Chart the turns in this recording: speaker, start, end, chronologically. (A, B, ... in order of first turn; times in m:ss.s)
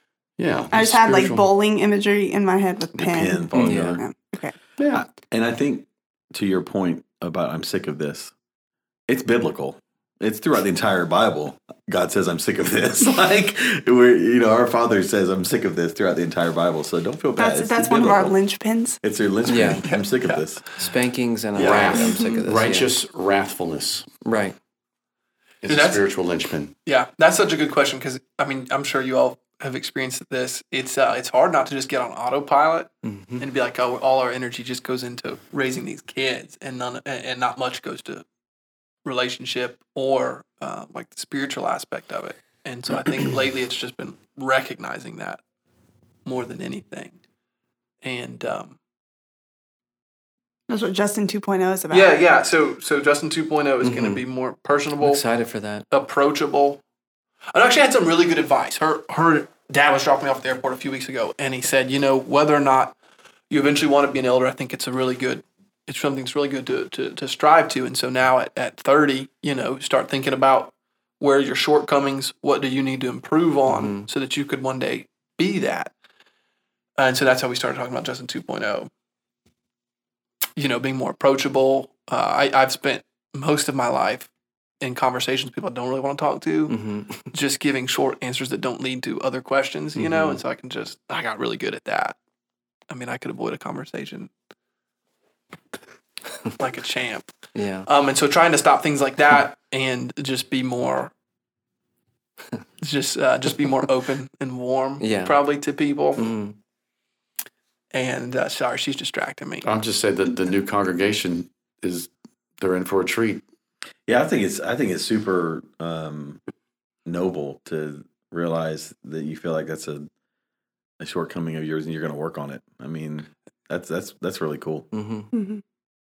0:00.4-0:01.5 A
0:00.7-0:04.6 B
0:03.0-0:04.0 C
0:03.5-0:04.0 D
0:04.8-0:05.0 A
0:04.9-0:08.3 C
0:09.1-0:18.4 C
0:17.4-0:19.0 B
0:19.0-0:20.7 C
0:19.4-0:19.9 D
0:19.5-0:20.4 E
0:20.8-0:22.9 D
0:21.6-0:24.1 A
0:21.6-0:21.8 C
0:21.9-0:22.4 B
0:24.2-0:24.6 D
0:25.6-0:26.7 A
0:25.6-0:26.0 E
0:26.9-0:38.2 E
0:33.0-0:33.4 D
0:39.0-0:45.4 E
0:46.2-0:47.2 E
0:48.0-0:48.8 E
0:50.7-0:52.1 B
0:51.9-0:55.2 E
0:53.8-0:54.2 D
0:55.0-0:55.8 D
0:55.9-0:56.8 E
0:57.5-1:03.0 E
1:03.5-1:15.9 E
1:13.7-1:14.1 D
1:17.0-1:18.9 E
1:20.6-1:24.3 E
1:24.8-1:26.8 E
1:26.7-1:27.3 D
1:27.3-1:32.2 E
1:30.0-1:30.4 D
1:32.9-1:34.3 E
1:36.6-1:37.3 E
1:37.6-1:37.9 D
1:37.9-1:41.1 E
1:42.8-1:46.3 E
1:45.0-1:45.4 D
1:46.2-1:46.6 D
1:47.9-1:49.7 E
1:49.6-1:53.4 A
1:54.1-1:56.4 C
1:57.0-2:00.1 C
2:01.0-2:04.9 C
2:04.9-2:05.3 D
2:05.3-2:05.6 B